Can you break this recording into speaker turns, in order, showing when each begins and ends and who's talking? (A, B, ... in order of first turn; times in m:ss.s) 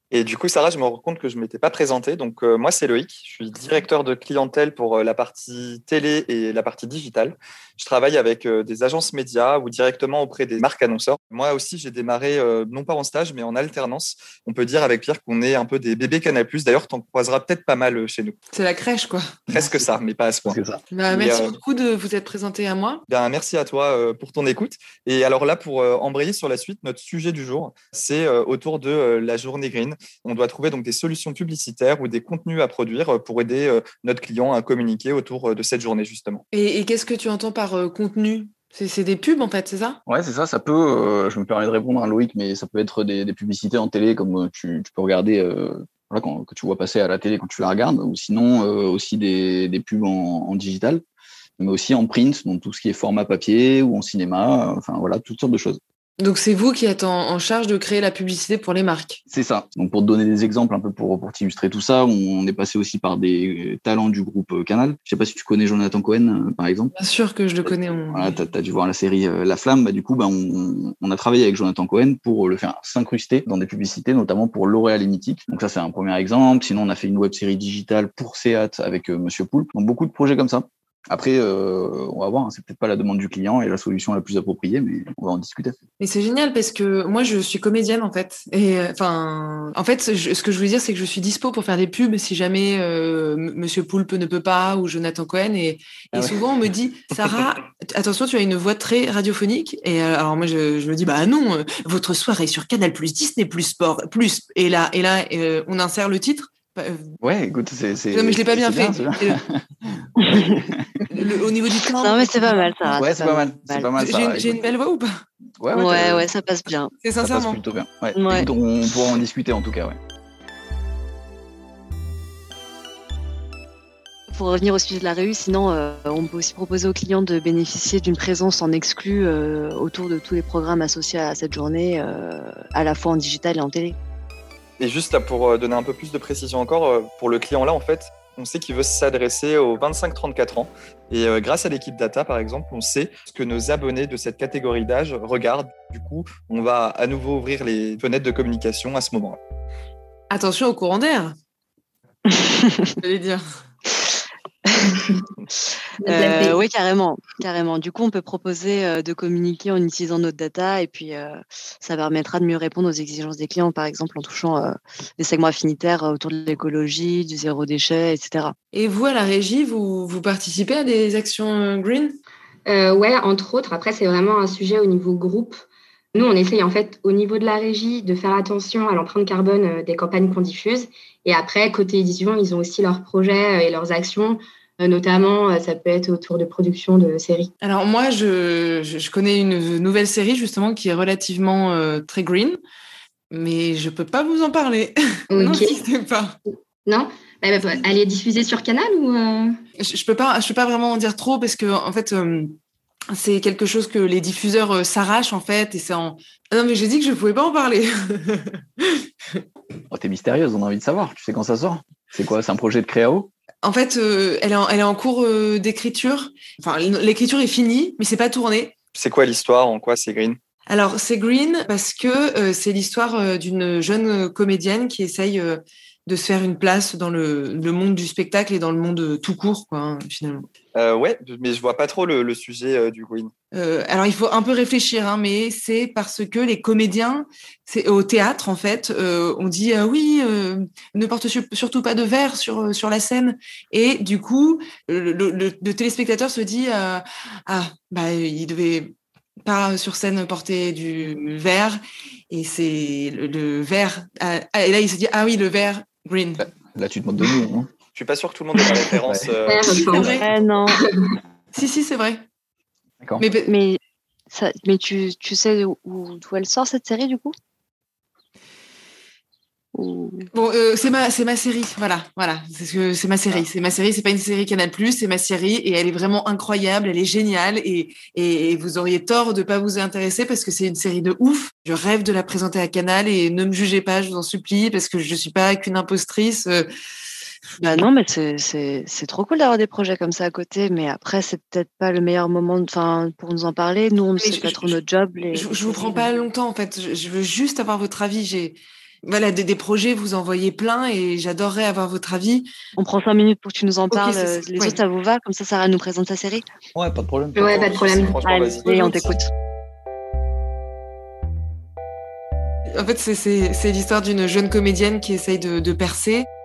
0:00.1-0:18.4 A
0:18.5-0:19.4 B
0:19.5-0:20.6 A
0:19.6-0:19.8 C
0:20.5-0:20.8 C
0:20.9-0:23.0 B
0:21.1-0:21.5 A
0:23.1-0:36.4 A
0:36.5-0:40.0 B
0:40.1-0:51.0 C
0:51.6-0:55.8 C
0:56.2-0:59.2 B
0:59.3-1:06.9 C
1:07.0-1:08.4 B
1:07.7-1:25.8 C
1:26.0-1:47.1 B
1:47.2-1:50.8 C
1:48.1-1:49.4 B
1:51.1-1:53.0 B
1:52.0-1:53.9 D
1:52.9-1:54.7 C
1:54.0-1:55.2 B
1:55.6-1:56.3 C
1:55.7-1:56.9 D
1:57.0-1:57.6 B
1:57.2-2:00.0 C
1:58.1-1:58.5 D
2:04.3-2:14.0 D
2:14.8-2:29.4 A
2:30.3-2:31.4 B
2:32.3-2:32.9 D
2:33.0-2:33.4 B
2:36.1-2:36.6 E
2:36.1-2:48.6 D
2:36.2-2:36.5 B
2:48.7-2:52.2 B
2:52.7-3:07.5 E
3:07.6-3:12.6 B
3:13.3-3:16.4 B
3:15.3-3:15.8 E
3:16.9-3:19.6 E
3:19.8-3:22.6 B
3:23.1-3:29.4 B
3:29.9-3:33.3 C
3:33.6-3:38.8 B
3:39.0-3:40.4 A
3:40.7-3:50.5 B
3:50.8-3:53.3 A
3:53.5-4:16.5 B
4:16.6-4:17.7 C
4:18.0-4:19.8 A
4:19.5-4:20.2 E
4:19.8-4:20.3 B
4:20.1-4:20.8 D
4:21.5-4:22.2 B
4:23.2-4:23.5 B
4:23.4-4:23.8 D
4:24.3-4:27.3 D
4:29.8-4:30.3 D
4:30.4-4:46.7 B
4:47.6-4:56.0 D
4:54.2-5:02.5 B
5:02.8-5:06.4 D
5:03.9-5:04.8 B
5:06.8-5:08.0 C
5:07.4-5:08.2 E
5:07.5-5:08.7 A
5:08.2-5:09.3 D
5:08.7-5:09.1 B
5:12.7-5:16.3 B